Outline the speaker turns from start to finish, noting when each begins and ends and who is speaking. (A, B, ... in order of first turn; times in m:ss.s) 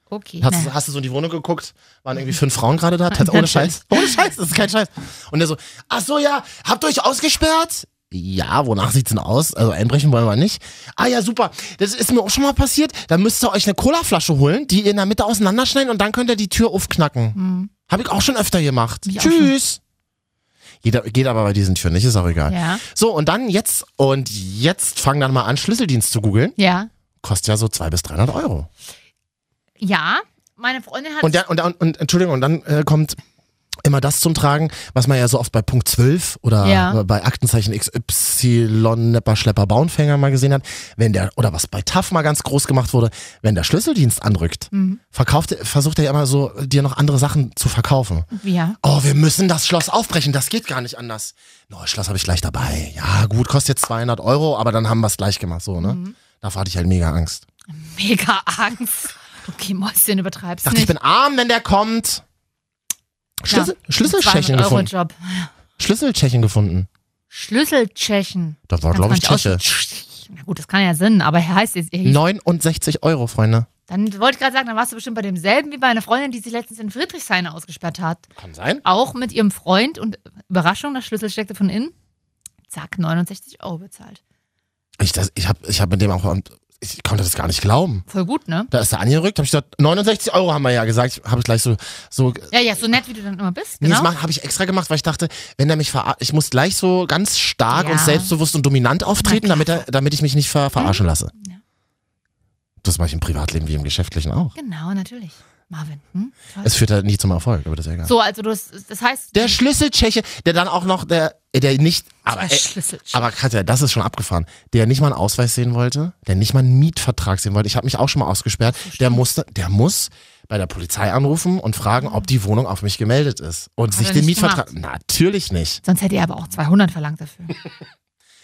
0:00.1-0:00.7 A
0:00.4-0:17.4 B
0:03.1-0:04.1 A
0:17.3-0:17.7 A
0:17.9-0:19.8 B
0:19.0-0:19.5 A
0:20.8-0:26.6 B
0:22.5-0:22.8 A
0:26.6-0:26.9 A
0:27.2-0:28.7 B
0:29.8-0:31.4 A
0:31.2-0:33.2 B
0:33.8-0:48.3 B
0:36.6-0:37.0 A
0:44.7-0:45.0 A
0:48.3-0:48.8 A
0:48.8-0:57.4 B
0:55.8-0:56.2 A
0:57.7-1:00.9 A
1:00.6-1:02.2 B
1:03.4-1:04.9 B
1:03.5-1:05.5 A
1:05.8-1:06.9 B
1:07.3-1:12.2 A
1:08.7-1:09.6 B
1:12.0-1:13.7 B
1:13.9-1:18.2 A
1:18.4-1:18.8 B
1:18.8-1:21.9 A
1:22.7-1:24.2 A
1:25.0-1:28.0 B
1:28.1-1:28.7 A
1:28.7-1:32.5 B
1:32.5-1:34.1 A
1:33.8-1:41.3 B
1:37.7-1:38.3 A
1:39.2-1:39.8 A
1:40.8-1:41.6 A
1:42.8-1:44.5 B
1:44.6-1:46.7 A
1:46.6-1:48.1 B
1:48.0-1:49.6 A
1:49.3-2:05.8 B
1:52.2-1:53.2 A
1:58.7-1:59.2 A
2:03.9-2:04.7 A
2:05.8-2:07.5 A